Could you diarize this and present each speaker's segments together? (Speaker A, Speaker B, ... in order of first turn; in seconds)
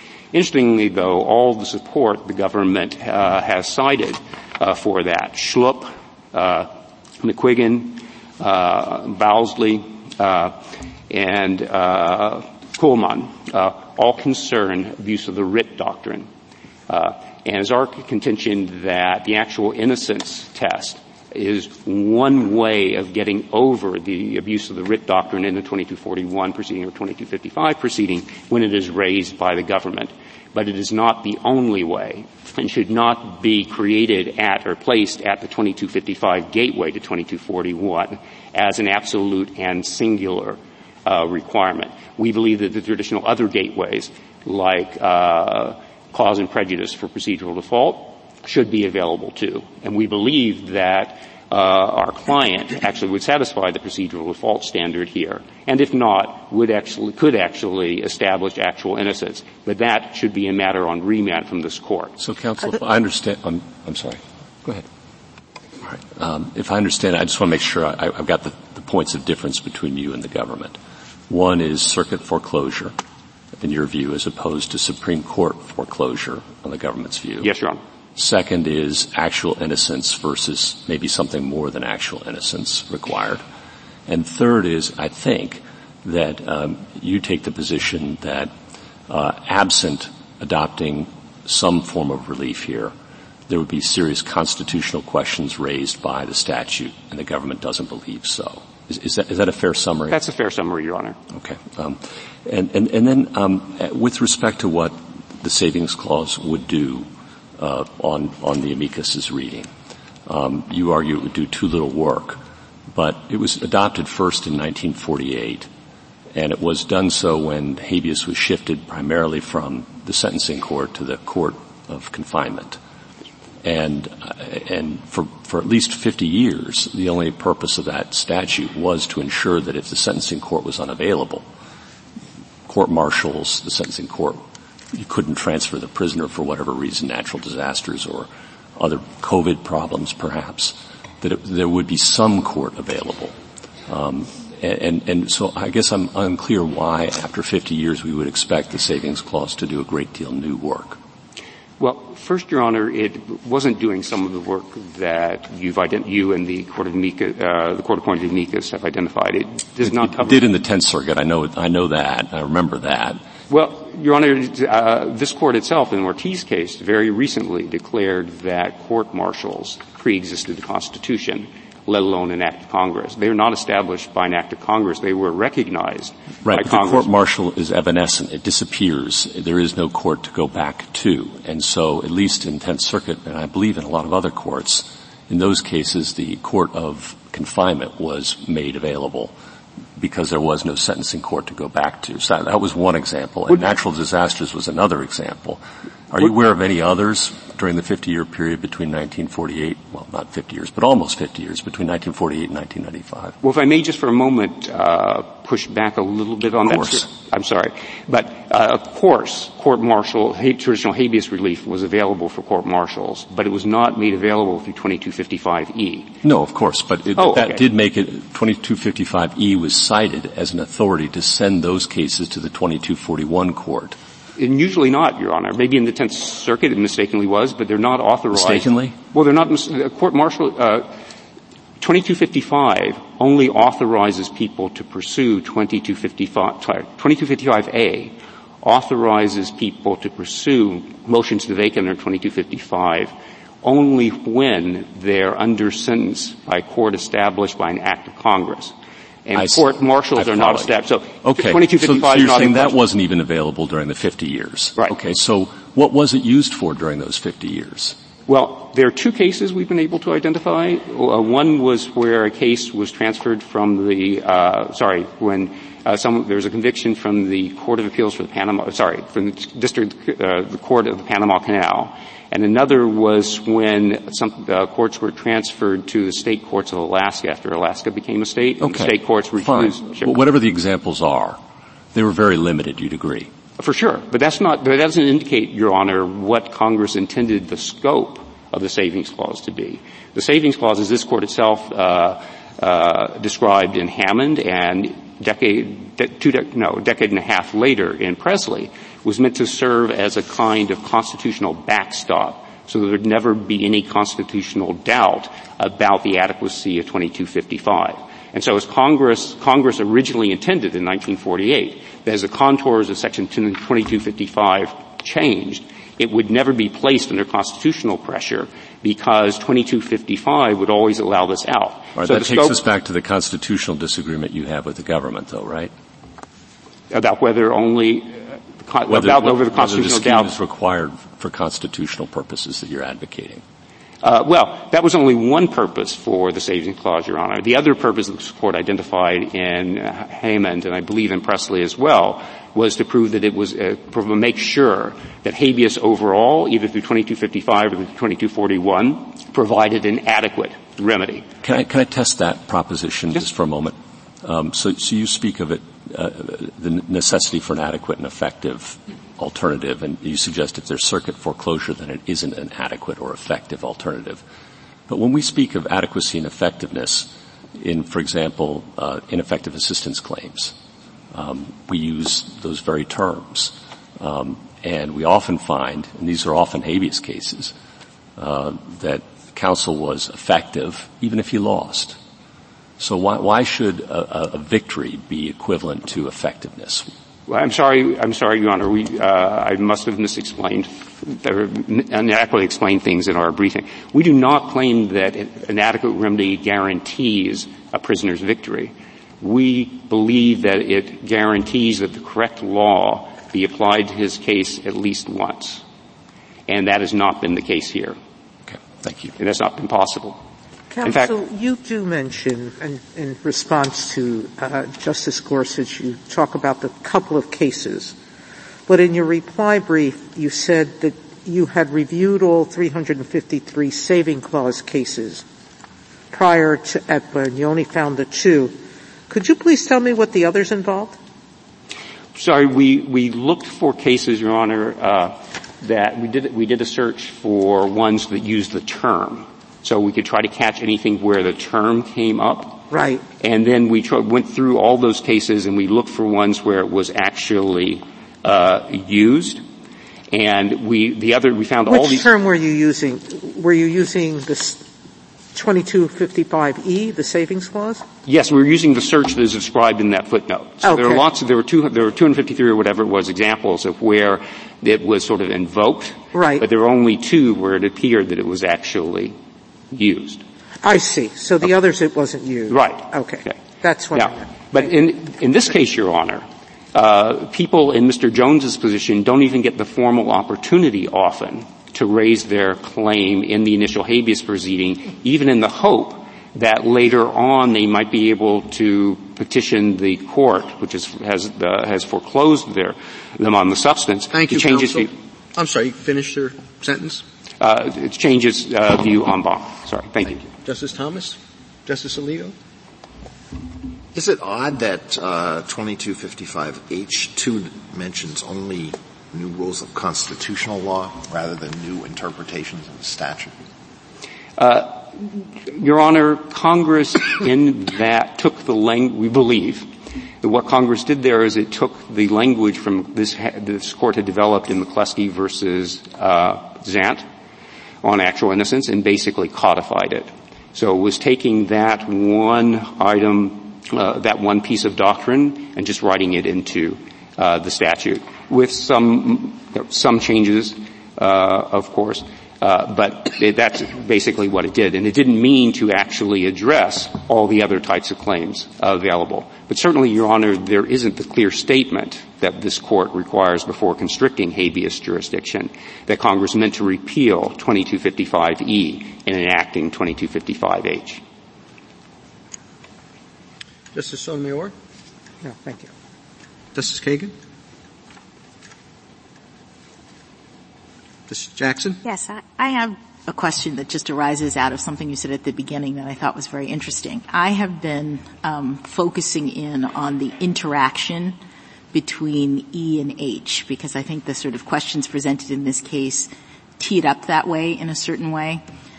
Speaker A: 0.3-16.3, 16.9-62.1, 77.4-77.8, 100.1-101.2, 151.8-160.4, 163.5-177.1, 203.4-216.1, 217.2-217.6, 224.4-230.9, 231.8-248.7, 249.2-252.8, 258.3-280.1, 283.6-322.6, 326.9-330.3, 334.0-351.3, 387.3-405.6, 406.5-408.0, 409.2-410.2, 410.8-411.1, 432.1-442.6, 443.2-449.4, 450.1-452.1, 458.1-469.1, 469.7-470.2, 472.5-473.3, 473.9-494.9, 497.4-500.2, 514.4-519.7, 520.2-527.0, 527.8-561.0
Speaker B: 62.2-64.8, 65.8-70.8, 71.3-72.9, 73.6-77.5, 78.2-83.4, 84.1-88.5, 89.1-92.9, 93.5-100.2, 101.3-107.1, 107.6-109.7, 110.2-112.4, 112.9-115.7, 116.3-122.8, 123.6-131.4, 132.7-134.4, 134.9-143.3, 143.9-151.0, 159.8-163.2, 176.4-189.3, 190.0-203.3, 206.7-207.0, 216.2-224.0, 228.3-228.9, 249.3-258.0, 278.6-281.4, 281.9-283.3, 321.9-325.7, 328.9-333.4, 351.4-364.2, 364.9-370.5, 371.1-377.5, 378.2-382.0, 382.8-386.9, 408.5-409.1
Speaker C: 410.7-417.9, 418.7-425.2, 426.1-428.6, 429.1-431.0, 442.7-443.0, 451.6-454.7, 455.3-457.8, 460.6-461.0, 466.1-466.4, 470.6-474.5, 565.2-565.7
Speaker D: 494.1-497.0, 500.2-502.3, 563.7-564.5, 566.5-567.1, 571.1-571.8
Speaker E: 503.9-513.3
Speaker F: 571.8-581.2, 581.7-588.4